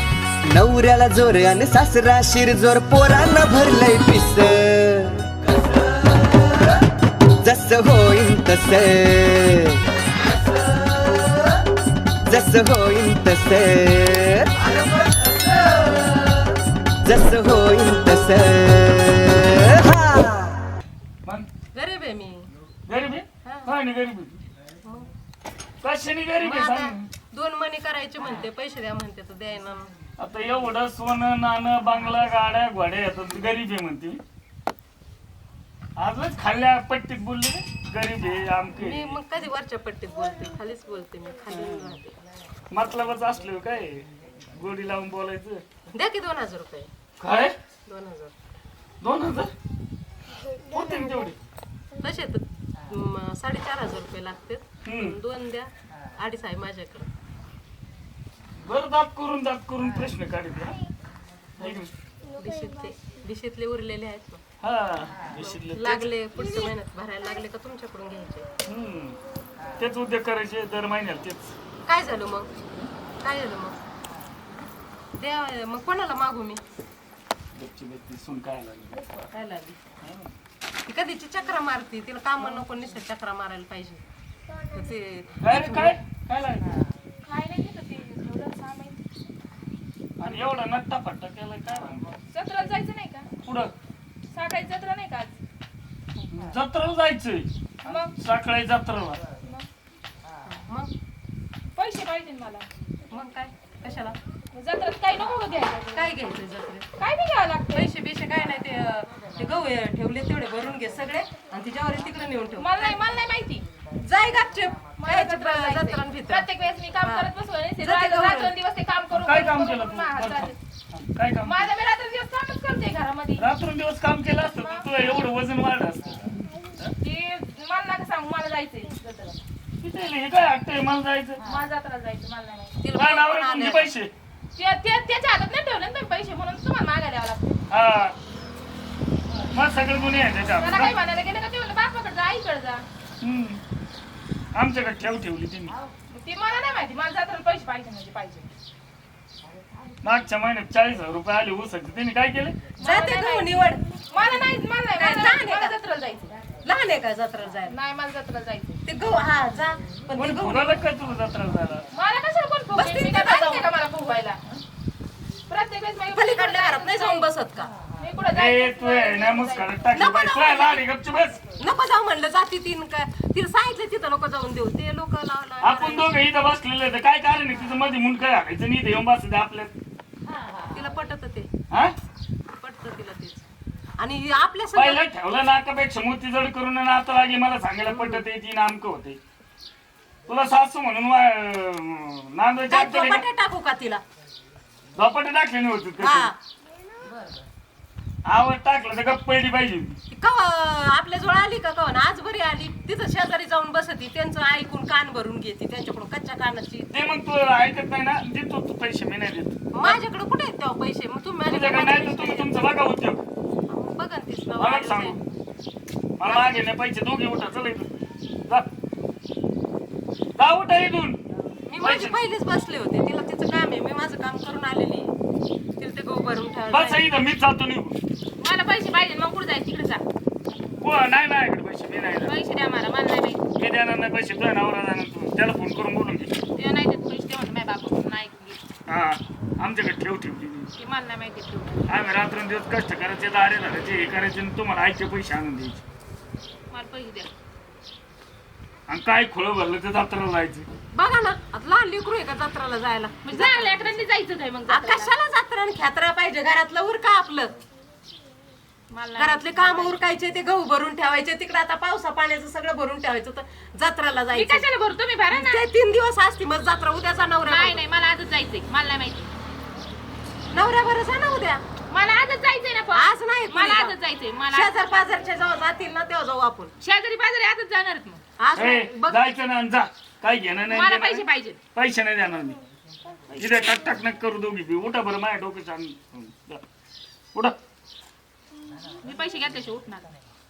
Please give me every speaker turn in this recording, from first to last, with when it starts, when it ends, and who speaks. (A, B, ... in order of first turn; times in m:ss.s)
0:00.5-0:05.8 A
0:07.4-0:09.8 A
0:12.3-0:15.8 A
0:17.0-0:20.6 A
0:21.7-0:22.5 B
0:22.9-0:24.4 C
0:24.8-0:25.1 B
0:25.8-0:27.1 C
0:26.4-0:29.9 B
0:30.2-0:34.2 C
0:36.0-0:39.2 C
0:38.8-0:42.2 B
0:41.5-0:41.9 C
0:42.7-0:45.6 C
0:45.9-0:46.9 B
0:47.2-0:47.6 C
0:47.9-0:48.3 B
0:49.0-0:49.5 C
0:50.7-0:51.4 C
0:52.0-0:57.1 B
0:54.8-0:55.2 C
0:58.6-1:00.8 C
1:01.6-1:01.9 C
1:02.4-1:04.4 B
1:04.6-1:06.1 C
1:05.4-1:08.5 B
1:08.7-1:09.2 C
1:09.8-1:11.6 C
1:11.9-1:12.5 B
1:13.2-1:13.8 B
1:15.2-1:16.6 B
1:17.6-1:19.0 C
1:19.3-1:19.8 B
1:20.0-1:20.3 C
1:20.9-1:24.0 B
1:24.7-1:26.0 B
1:25.4-1:26.6 C
1:27.3-1:29.0 D
1:30.2-1:32.1 C
1:32.3-1:33.3 D
1:33.4-1:33.7 C
1:34.3-1:35.4 D
1:36.3-1:37.5 C
1:37.8-1:38.1 D
1:38.1-1:39.2 C
1:40.4-1:40.9 B
1:41.8-1:42.7 D
1:43.1-1:44.2 B
1:44.6-1:46.1 D
1:45.9-1:46.8 B
1:47.0-1:47.9 D
1:47.7-1:53.0 B
1:52.6-1:53.6 D
1:54.0-1:56.5 B
1:55.0-2:00.6 D
1:57.8-1:58.5 B
1:59.2-2:01.7 C
2:01.4-2:03.5 D
2:03.4-2:06.9 C
2:04.6-2:04.9 D
2:07.0-2:09.4 D
2:09.8-2:11.4 C
2:11.4-2:12.8 D
2:12.8-2:13.9 B
2:13.0-2:14.1 C
2:14.6-2:17.6 D
2:17.7-2:18.2 C
2:19.5-2:21.0 C
2:20.6-2:22.8 D
2:23.2-2:23.6 C
2:24.6-2:25.8 C
2:26.1-2:28.5 D
2:30.0-2:32.6 C
2:32.8-2:36.3 D
2:32.8-2:33.8 B
2:35.0-2:35.7 B
2:36.6-2:37.8 B
2:37.7-2:38.8 D
2:38.9-2:40.8 B
2:40.2-2:41.9 C
2:41.9-2:44.6 D
2:42.8-2:43.7 B
2:45.5-2:47.3 D
2:46.2-2:47.7 B
2:48.0-2:49.7 D
2:48.4-2:51.4 C
2:50.0-2:50.8 B
2:51.6-2:56.1 B
2:55.6-2:59.7 C
3:00.6-3:01.5 B
3:01.7-3:02.0 C
3:02.6-3:03.5 B
3:04.0-3:05.0 B
3:04.8-3:09.2 C
3:10.3-3:13.2 C
3:12.7-3:14.0 B
3:15.0-3:16.3 C
3:16.0-3:16.4 B
3:18.3-3:20.0 C
3:20.1-3:26.9 B
3:26.9-3:30.0 C
3:29.7-3:32.6 B
3:31.5-3:33.2 C
3:33.7-3:35.2 B
3:34.6-3:35.2 C
3:36.2-3:37.9 C
3:40.4-3:41.2 C
3:41.7-3:45.1 B
3:41.8-3:42.2 C
3:45.8-3:47.0 B
3:46.7-3:48.0 C
3:48.4-3:50.0 D
3:50.8-3:52.3 C
3:52.2-3:53.4 D
3:53.6-3:56.4 C
3:56.6-3:58.6 D
3:58.9-4:00.7 C
4:00.8-4:01.8 D
4:01.9-4:05.8 C
4:06.7-4:07.3 D
4:08.9-4:10.7 C
4:10.9-4:13.8 B
4:13.2-4:15.1 D
4:14.7-4:17.5 B
4:18.9-4:20.0 D
4:19.2-4:24.7 B
4:24.3-4:25.6 D
4:25.3-4:27.8 B
4:27.5-4:29.3 D
4:30.5-4:31.6 B
4:31.9-4:34.9 D
4:33.0-4:34.0 B
4:34.5-4:36.7 B
4:36.8-4:38.2 D
4:38.4-4:39.2 B
4:38.6-4:42.6 C
4:40.7-4:41.6 D
4:43.3-4:46.6 C
4:49.0-4:50.1 D